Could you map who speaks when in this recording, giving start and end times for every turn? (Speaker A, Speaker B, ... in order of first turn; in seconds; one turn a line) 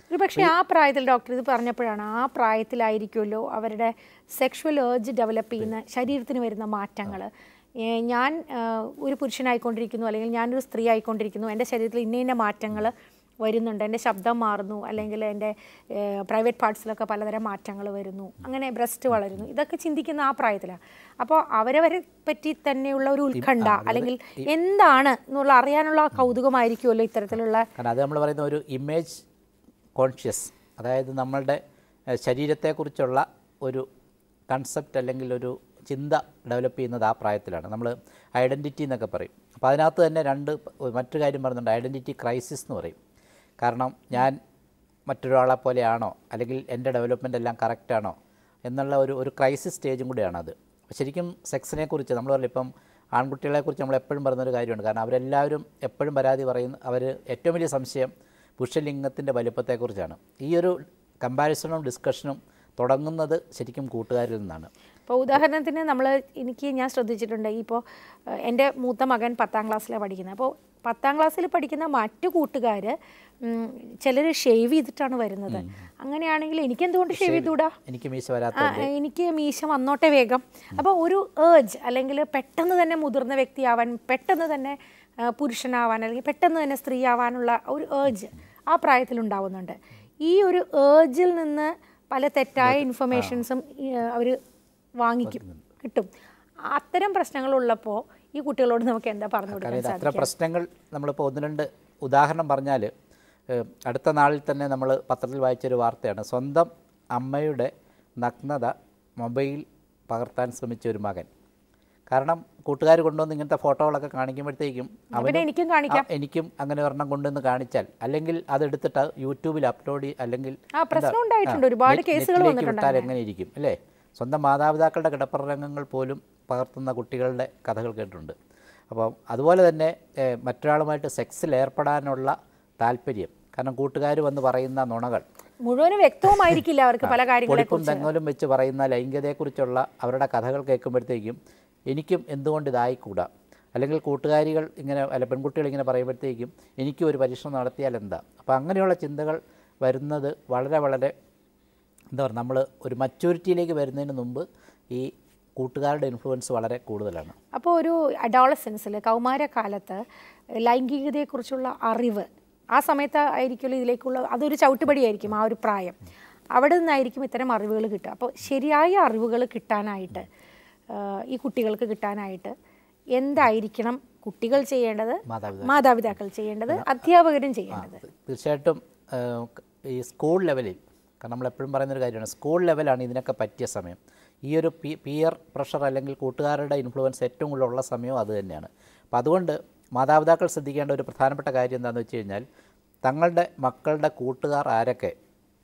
Speaker A: 0.1-27.7
Speaker B: 23.4-24.5
Speaker B: 27.8-29.2
Speaker B: 30.0-33.9
Speaker B: 34.5-43.0
Speaker B: 43.6-44.4
Speaker B: 45.1-64.7
Speaker A: 65.1-77.7
Speaker B: 77.1-78.9
Speaker A: 78.6-94.4
Speaker B: 92.6-93.4
Speaker A: 95.0-96.1
Speaker B: 95.2-95.7
Speaker A: 96.7-100.3
Speaker B: 99.5-102.9
Speaker B: 103.5-111.3
Speaker B: 112.1-128.4
Speaker A: 115.1-116.1
Speaker A: 120.8-123.1
Speaker B: 128.9-135.2
Speaker A: 135.7-138.1
Speaker B: 137.0-141.4
Speaker B: 141.9-151.1
Speaker B: 152.1-157.4
Speaker A: 157.5-160.0
Speaker A: 160.6-166.0
Speaker A: 166.6-170.3
Speaker A: 170.9-172.5
Speaker A: 173.2-178.0
Speaker B: 175.3-175.8
Speaker B: 177.7-192.4
Speaker B: 193.1-195.2